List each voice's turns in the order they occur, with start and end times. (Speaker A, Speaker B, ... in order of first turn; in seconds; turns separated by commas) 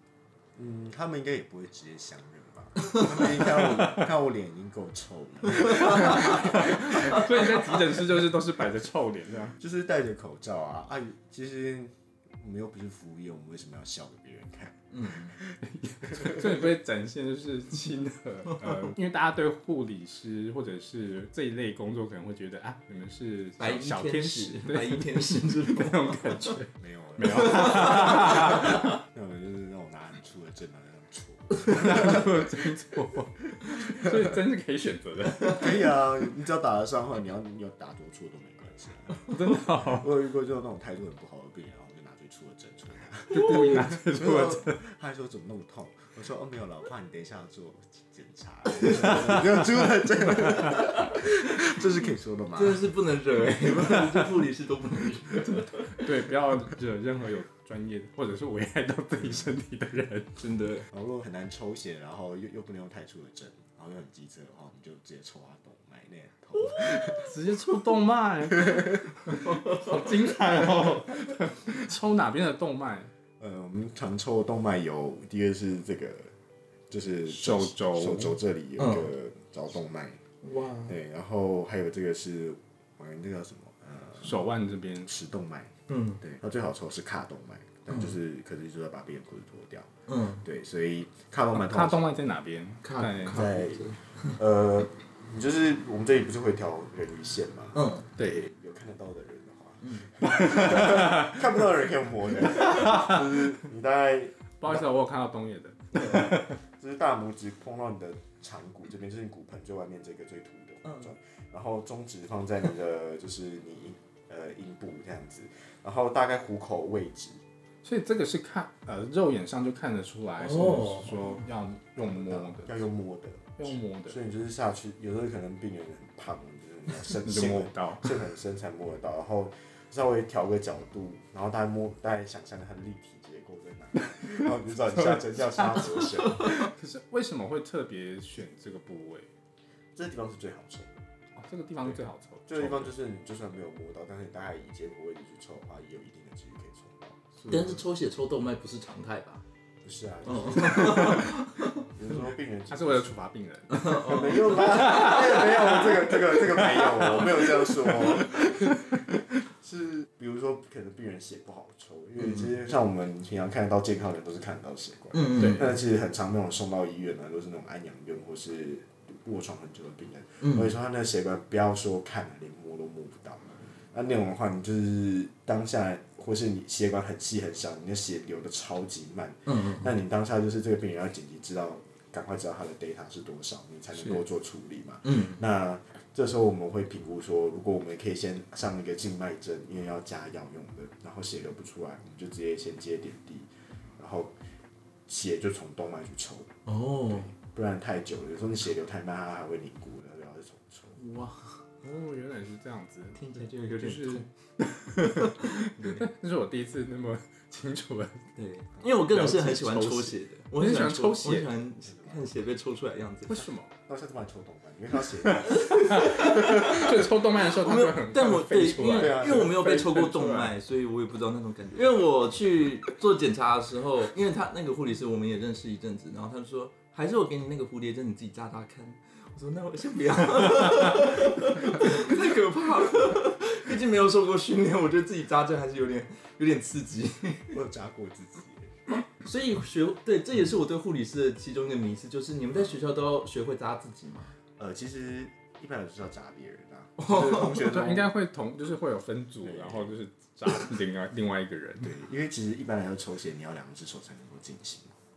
Speaker A: 0.6-7.8, Speaker B: 5.8-9.6, Speaker A: 9.6-14.8, Speaker C: 14.9-15.3, Speaker B: 15.6-29.0, Speaker A: 16.1-16.4, Speaker C: 23.6-26.5, Speaker A: 26.8-32.7, Speaker C: 27.8-28.3, Speaker B: 31.6-36.0, Speaker A: 33.7-34.2, Speaker A: 35.5-52.9, Speaker B: 39.2-40.1, Speaker B: 43.3-44.8, Speaker C: 52.5-56.1, Speaker B: 55.6-60.3, Speaker C: 60.4-60.9, Speaker A: 60.9-67.3, Speaker B: 66.8-73.1, Speaker A: 73.4-76.3, Speaker A: 76.9-80.2, Speaker B: 77.3-78.4, Speaker C: 78.8-79.1, Speaker C: 80.4-80.9, Speaker A: 80.9-84.4, Speaker B: 84.2-85.1, Speaker A: 85.0-89.9, Speaker C: 85.9-86.2, Speaker C: 90.1-90.4, Speaker A: 90.4-92.0, Speaker B: 91.5-93.5, Speaker C: 92.8-94.4, Speaker A: 93.2-104.8, Speaker C: 97.7-98.0, Speaker B: 98.2-98.4, Speaker C: 99.8-100.1, Speaker B: 100.4-101.3, Speaker B: 104.6-106.5, Speaker A: 105.9-117.4, Speaker B: 117.8-122.8, Speaker C: 120.6-121.1, Speaker A: 122.0-136.7, Speaker B: 123.6-124.2, Speaker B: 127.2-128.1, Speaker B: 134.9-139.3, Speaker A: 139.9-141.0, Speaker B: 141.3-142.9, Speaker A: 141.8-147.8, Speaker C: 147.5-149.4, Speaker A: 149.8-153.2, Speaker C: 150.2-151.8, Speaker B: 152.7-155.6, Speaker C: 153.7-155.1, Speaker A: 153.7-194.3, Speaker C: 165.1-165.7, Speaker B: 165.4-165.7, Speaker C: 170.4-170.7, Speaker C: 179.5-179.8, Speaker C: 185.0-185.4, Speaker A: 195.1-196.5, Speaker C: 196.7-197.3, Speaker A: 197.1-201.0, Speaker C: 201.0-201.6, Speaker B: 201.8-208.3, Speaker C: 203.2-204.3, Speaker C: 205.0-206.0, Speaker C: 208.3-213.4, Speaker B: 209.1-211.5, Speaker A: 211.9-212.2, Speaker B: 213.3-213.7, Speaker A: 213.8-217.0, Speaker C: 215.5-216.8, Speaker B: 215.6-220.5, Speaker C: 217.5-237.5, Speaker A: 218.9-219.6, Speaker A: 237.5-238.7, Speaker C: 239.1-244.3, Speaker A: 244.6-248.1, Speaker C: 247.0-247.5, Speaker B: 247.4-251.9, Speaker A: 249.4-249.9, Speaker A: 251.8-254.9